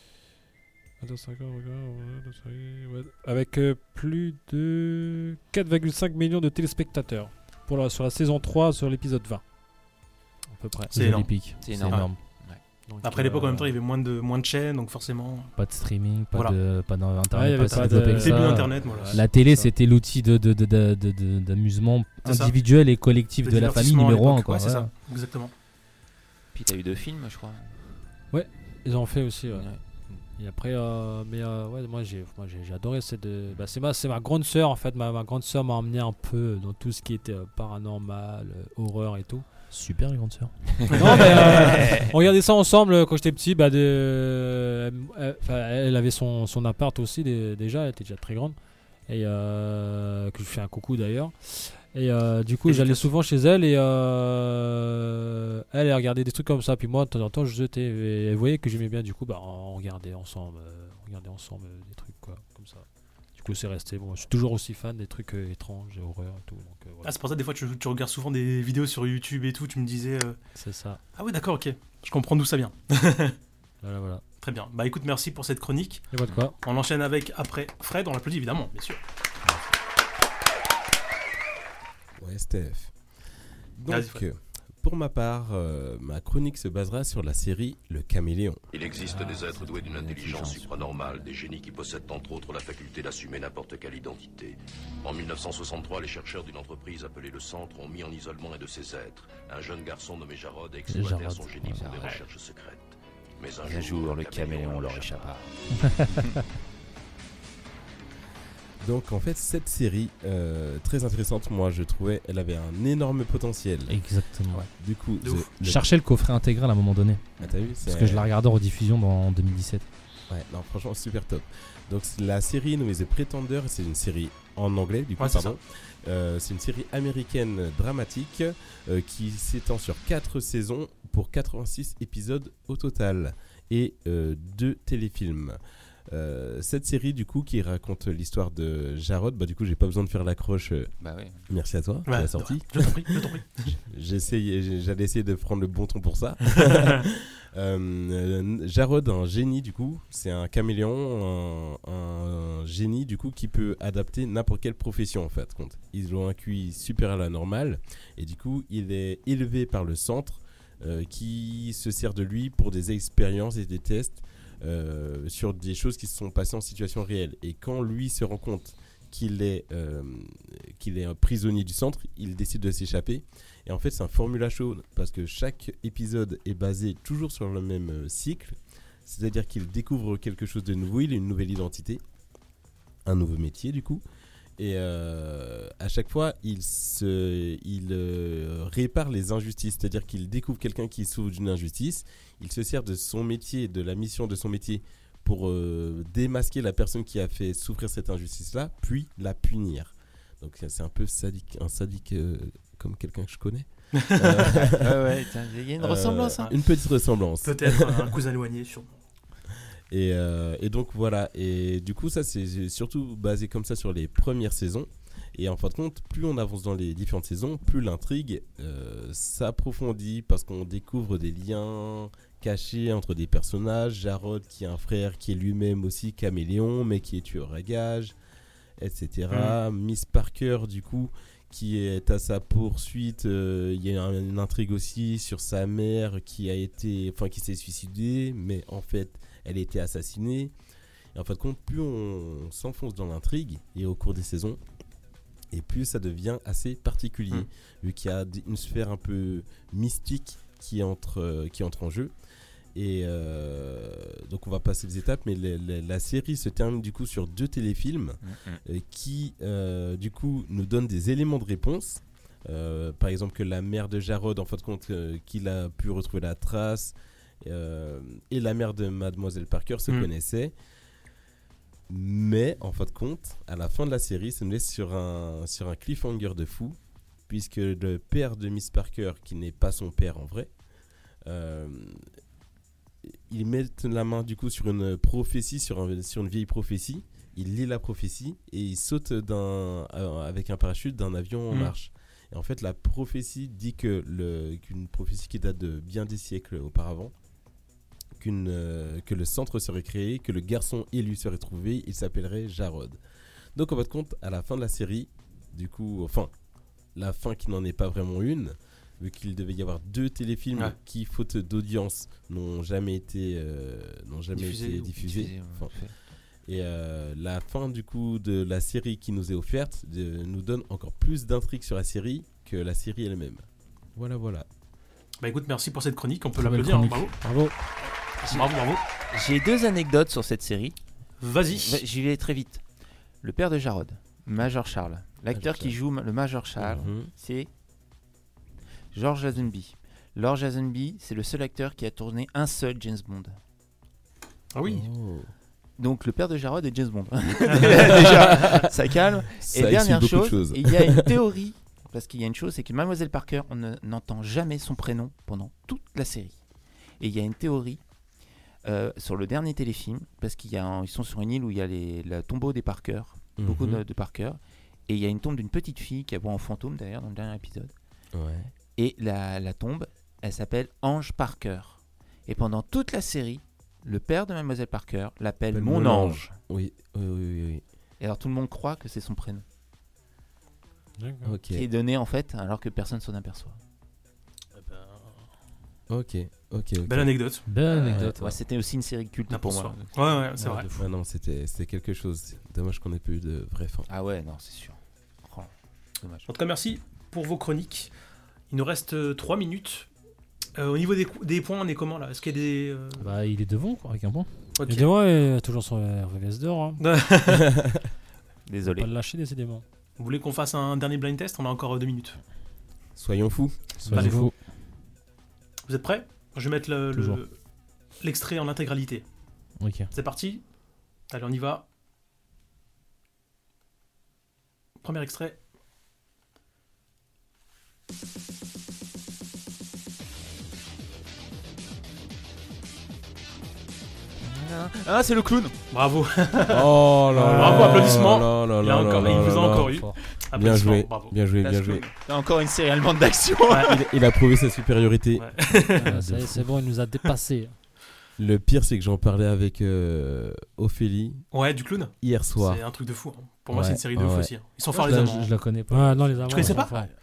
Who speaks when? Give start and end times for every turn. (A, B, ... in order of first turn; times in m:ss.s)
0:01.0-0:09.4 A
0:10.5-0:11.0 A
0:10.9-0:12.2 B
0:10.9-0:12.1 C
0:11.6-0:12.6 D
0:12.9-0:13.8 A
0:13.0-0:15.6 C
0:15.6-0:24.9 B
0:17.3-0:19.7 A
0:17.6-0:19.2 C
0:22.2-0:22.5 C
0:23.4-0:25.5 C
0:26.5-0:27.8 D
0:28.3-0:29.7 A
0:29.5-0:29.8 D
0:30.3-0:39.5 A
0:39.7-0:41.4 B
0:40.9-0:48.6 A
0:41.7-0:42.0 D
0:49.1-1:02.8 A
0:52.6-0:53.1 C
1:03.4-1:07.1 A
1:07.0-1:10.4 C
1:10.5-1:11.0 A
1:11.2-1:13.4 C
1:13.8-1:14.2 A
1:14.4-1:16.1 C
1:16.1-1:16.6 A
1:16.6-1:19.0 C
1:22.2-1:22.9 E
1:23.8-1:28.6 E
1:23.9-1:24.2 C
1:28.7-1:45.4 F
1:28.9-1:31.3 D
1:40.9-1:41.9 B
1:41.6-1:42.2 D
1:43.6-1:45.5 D
1:45.8-1:46.2 B
1:46.1-1:46.4 D
1:48.8-1:54.0 E
1:53.9-1:54.6 B
1:54.7-1:55.8 E
1:55.2-1:55.5 C
1:55.6-1:59.8 B
1:57.4-1:57.7 D
1:57.4-1:58.3 E
2:00.3-2:20.9 E
2:05.2-2:05.6 C
2:21.0-2:21.5 D
2:21.5-2:23.0 E
2:22.1-2:23.7 C
2:23.7-3:02.0 E
2:26.6-2:27.0 C
3:03.0-3:04.0 E
3:04.6-3:25.2 E
3:24.0-3:24.4 C
3:24.3-3:26.5 D
3:25.8-3:28.1 E
3:27.4-3:29.0 C
3:29.9-3:48.2 E
3:48.8-4:00.5 E
3:49.3-3:49.6 C
4:01.1-4:04.6 E
4:05.5-4:12.1 E
4:12.7-4:30.5 E
4:18.2-4:18.6 D
4:31.9-4:36.8 E
4:37.3-4:40.5 E
4:41.2-4:42.0 E
4:43.1-4:57.1 E
4:58.2-5:03.0 E
5:03.5-5:06.3 E
5:06.9-5:15.7 E
5:14.3-5:14.9 C
5:15.0-5:15.9 D
5:16.4-5:23.4 E
5:24.0-5:24.5 E
5:25.2-5:27.1 C
5:26.4-5:27.0 B
5:26.5-5:27.5 A
5:28.2-5:28.8 C
5:29.1-5:30.8 D
5:31.2-5:31.8 C
5:31.4-5:32.6 D
5:33.2-5:37.5 D
5:35.3-5:35.7 E
5:36.6-5:37.1 E
5:38.9-5:43.4 D
5:44.5-5:44.8 C
5:44.6-5:45.3 E
5:45.8-5:56.4 D
5:47.5-5:48.4 C
5:47.7-5:48.6 E
5:49.4-5:51.1 E
5:57.0-5:57.8 D
5:58.6-6:07.7 D
6:03.4-6:03.8 E
6:08.1-6:08.5 E
6:08.8-6:16.3 D
6:15.5-6:17.6 E
6:18.0-6:19.4 D
6:21.0-6:21.3 A
6:21.2-6:21.6 E
6:21.5-6:23.6 D
6:24.6-6:25.1 C
6:25.9-6:27.1 E
6:26.8-6:27.4 C
6:27.5-6:28.4 B
6:27.7-6:29.9 D
6:29.3-6:30.7 C
6:30.4-6:30.7 A
6:30.8-6:33.9 E
6:33.9-6:36.3 D
6:36.3-6:37.9 C
6:38.5-6:39.9 C
6:40.6-6:43.1 C
6:43.0-6:44.3 B
6:44.6-6:44.9 C
6:44.7-6:46.8 A
6:46.8-6:47.5 C
6:47.3-6:47.7 E
6:48.4-6:48.9 D
6:48.7-6:49.6 A
6:50.0-6:52.2 C
6:53.0-6:54.1 E
6:53.8-6:54.3 B
6:53.9-6:54.3 C
6:55.7-6:57.3 C
6:56.9-6:57.2 B
6:58.0-6:59.0 C
6:59.6-6:59.9 B
6:59.9-7:00.4 C
7:01.1-7:01.6 C
7:04.8-7:05.4 C
7:14.2-7:15.5 D
7:15.7-7:16.7 C
7:16.5-7:19.8 E
7:17.1-7:17.8 A
7:17.3-7:21.9 C
7:19.0-7:20.0 B
7:20.3-7:21.8 E
7:21.4-7:23.8 D
7:23.5-7:23.8 C
7:23.6-7:25.5 E
7:25.2-7:25.8 C
7:25.8-7:27.6 A
7:25.8-7:26.4 B
7:28.2-7:31.2 E
7:31.3-7:35.3 C
7:32.0-7:32.6 E
7:33.5-7:33.8 B
7:33.9-7:34.3 E
7:34.7-7:36.7 B
7:35.7-7:36.9 A
7:36.3-7:36.7 C